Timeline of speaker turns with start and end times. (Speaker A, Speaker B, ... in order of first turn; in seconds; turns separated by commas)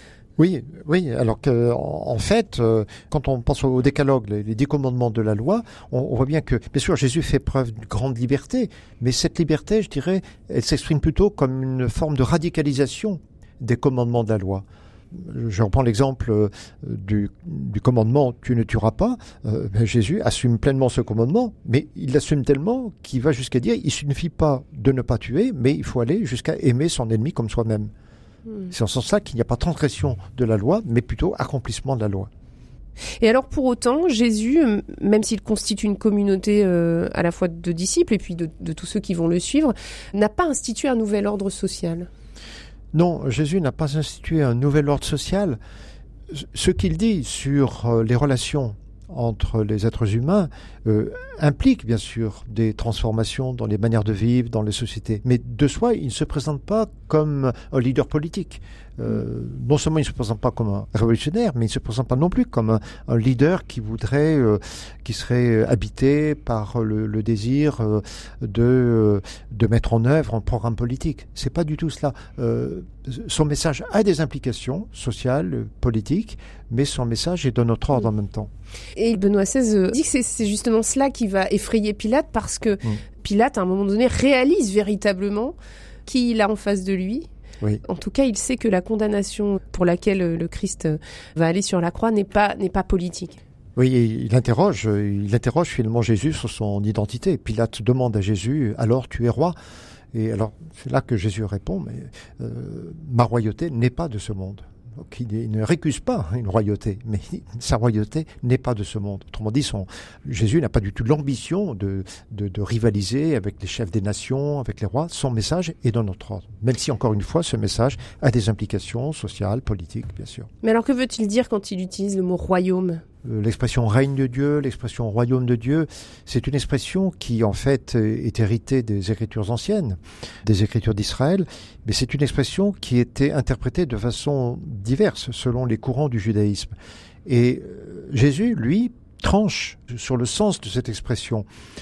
Speaker A: 0.4-27.9, Speaker A: 28.7-32.3, Speaker B: 33.2-42.1, Speaker A: 42.9-45.6, Speaker A: 46.3-78.5, Speaker B: 78.9-85.5, Speaker B: 86.1-87.3, Speaker B: 87.8-93.4, Speaker A: 93.8-99.5, Speaker A: 100.1-120.5, Speaker B: 120.6-123.0, Speaker A: 123.2-136.7, Speaker A: 137.2-141.4